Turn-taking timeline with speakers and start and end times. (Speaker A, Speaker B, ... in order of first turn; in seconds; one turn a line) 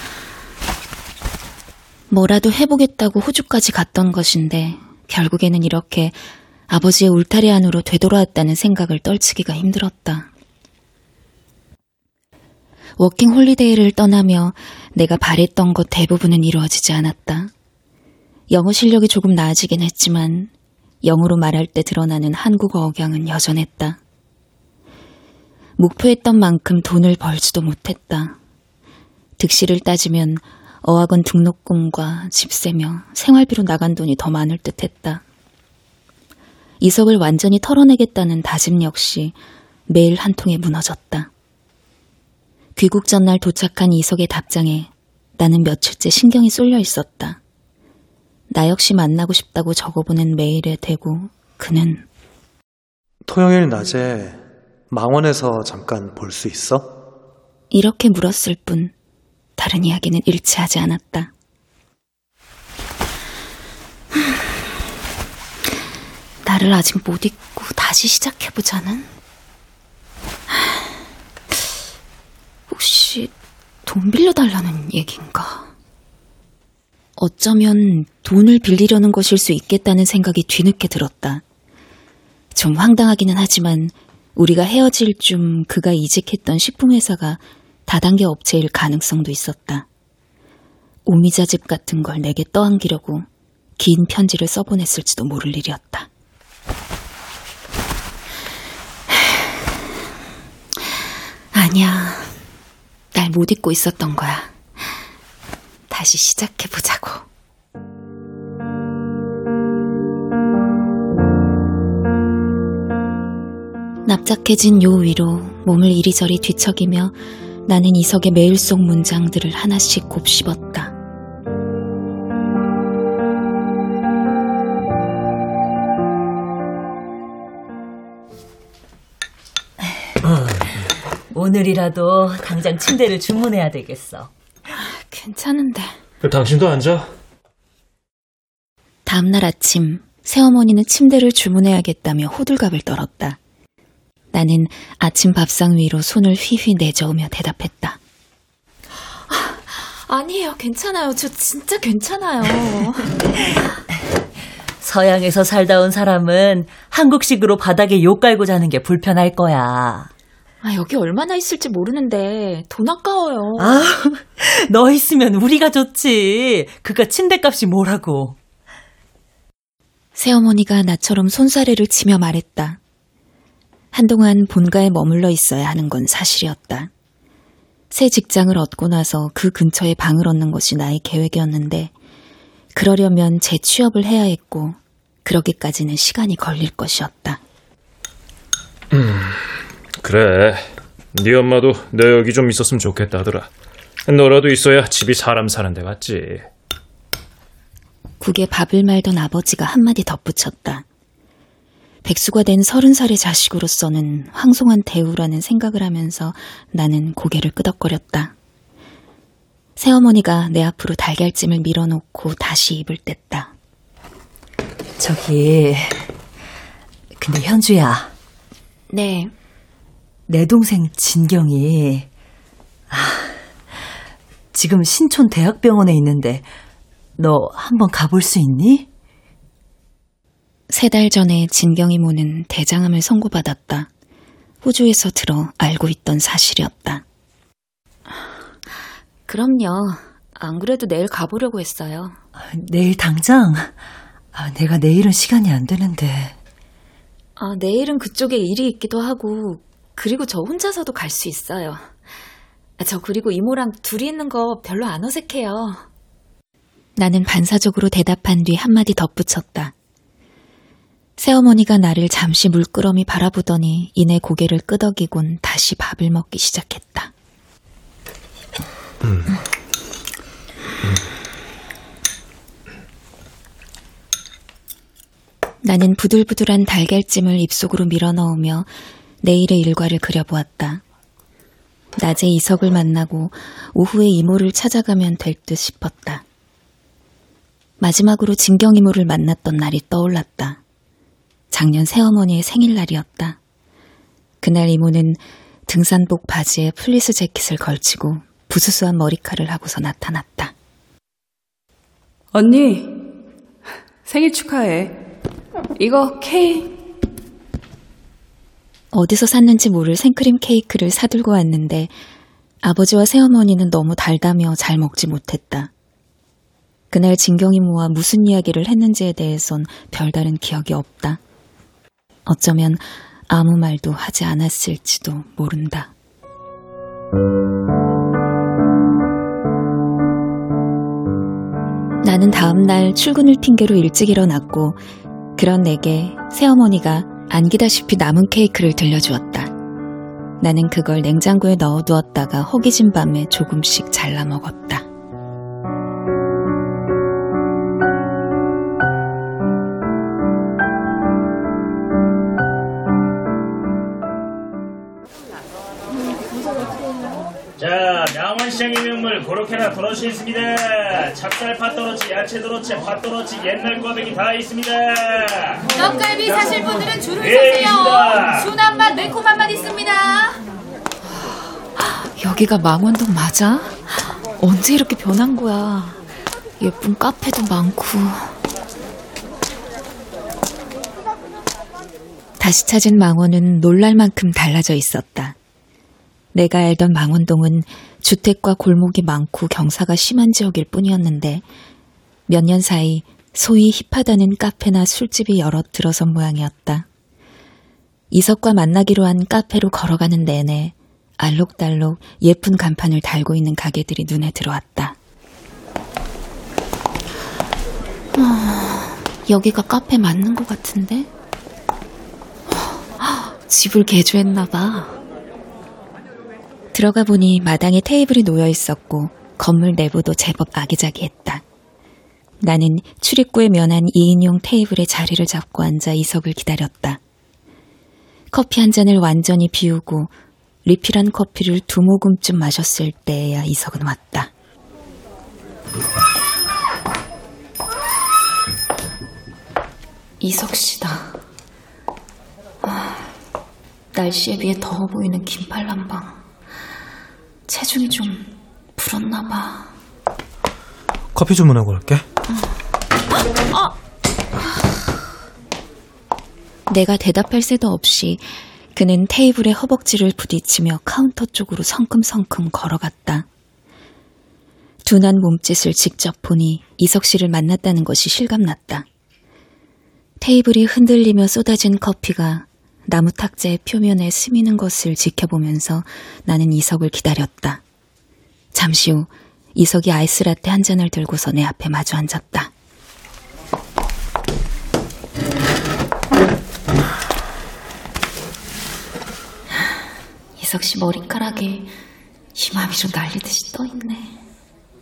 Speaker A: 2.1-10.3
Speaker A: 13.0-17.5
Speaker A: 18.5-20.5
Speaker A: 21.0-24.0
Speaker A: 25.8-28.4
Speaker A: 29.4-35.2
Speaker A: 36.8-39.3
Speaker A: 39.9-41.3
Speaker A: 42.8-47.4
Speaker A: 48.5-52.0
Speaker B: 53.2-57.0
Speaker A: 57.7-58.9
Speaker A: 59.6-61.3
Speaker A: 66.4-69.1
Speaker A: 72.7-73.3
Speaker A: 73.8-75.7
Speaker A: 77.2-81.4
Speaker A: 82.5-89.9
Speaker A: 91.0-93.2
Speaker A: 93.8-96.1
Speaker A: 99.1-99.4
Speaker A: 101.5-102.3
Speaker A: 103.1-104.5
Speaker A: 105.9-107.2
Speaker A: 114.0-120.9
Speaker C: 131.3-134.3
Speaker A: 134.8-135.9
Speaker D: 136.2-137.1
Speaker A: 139.1-143.4
Speaker A: 144.3-148.0
Speaker A: 149.3-153.1
Speaker C: 154.8-160.1
Speaker A: 160.6-163.9
Speaker C: 163.6-168.3
Speaker A: 170.1-172.8
Speaker A: 173.9-176.9
Speaker A: 177.9-181.9
Speaker A: 182.7-187.4
Speaker D: 188.9-193.5
Speaker D: 194.1-196.4
Speaker A: 198.2-200.8
Speaker A: 202.0-208.3
Speaker A: 209.8-213.5
Speaker C: 215.0-216.1
Speaker C: 217.2-218.1
Speaker A: 218.9-219.3
Speaker C: 220.3-222.1
Speaker C: 222.9-223.3
Speaker C: 224.5-226.5
Speaker C: 227.2-228.9
Speaker A: 230.7-233.9
Speaker A: 234.6-237.0
Speaker A: 239.3-242.2
Speaker C: 242.4-243.7
Speaker C: 244.3-246.3
Speaker A: 247.4-251.9
Speaker A: 252.8-255.8
Speaker A: 256.9-259.7
Speaker A: 261.2-267.1
Speaker A: 275.6-278.7
Speaker A: 279.2-280.8
Speaker A: 282.0-286.2
Speaker A: 287.8-290.6
Speaker A: 291.5-293.4
Speaker A: 294.4-300.5
Speaker E: 302.3-303.1
Speaker E: 304.0-305.0
Speaker E: 305.8-306.8
Speaker A: 308.9-311.9
Speaker A: 312.6-315.7
Speaker A: 316.9-321.2
Speaker A: 322.2-325.9
Speaker A: 332.0-334.8
Speaker A: 335.4-339.5
Speaker A: 340.4-344.9
Speaker F: 357.6-365.6
Speaker G: 365.7-370.4
Speaker F: 367.2-368.5
Speaker A: 371.8-376.0
Speaker A: 376.6-378.4
Speaker A: 382.4-385.4
Speaker A: 386.3-391.4
Speaker A: 392.3-396.9
Speaker A: 398.1-404.9
Speaker A: 408.1-411.1
Speaker A: 412.5-414.9
Speaker A: 416.7-421.4
Speaker A: 422.4-427.0
Speaker A: 428.3-430.1
Speaker A: 430.6-434.3
Speaker A: 440.2-441.2
Speaker A: 442.6-443.1
Speaker A: 443.9-446.2
Speaker A: 447.5-449.7
Speaker B: 451.1-452.0
Speaker A: 456.7-463.2
Speaker A: 464.8-468.9
Speaker A: 470.2-477.6
Speaker A: 478.5-482.5
Speaker A: 490.4-491.7
Speaker A: 492.4-494.2